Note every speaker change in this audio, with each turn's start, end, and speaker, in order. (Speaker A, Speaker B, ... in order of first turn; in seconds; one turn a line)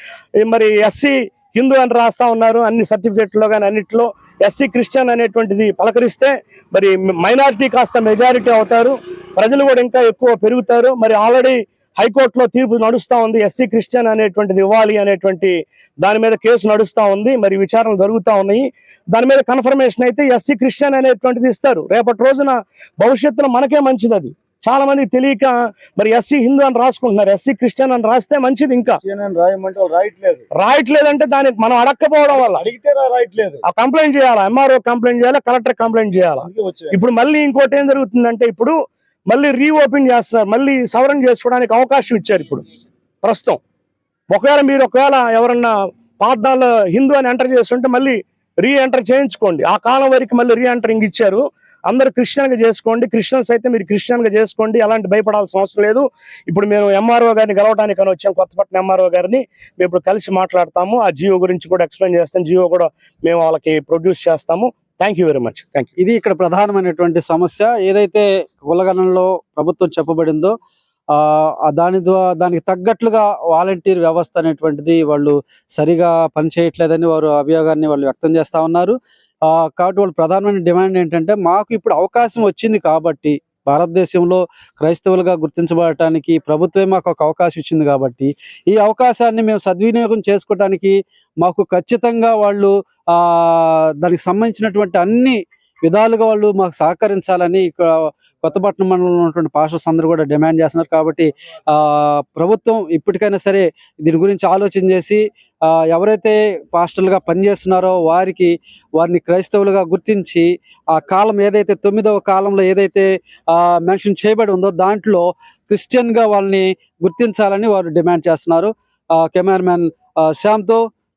Speaker A: 0.4-29.0
Speaker B: 29.0-30.4
Speaker A: 30.6-32.6
Speaker B: 32.3-33.6
Speaker A: 33.6-38.8
Speaker B: 36.4-37.0
Speaker A: 39.3-42.6
Speaker A: 43.2-43.6
Speaker A: 44.3-65.9
Speaker C: 66.0-70.5
Speaker C: 71.2-79.0
Speaker C: 79.5-120.8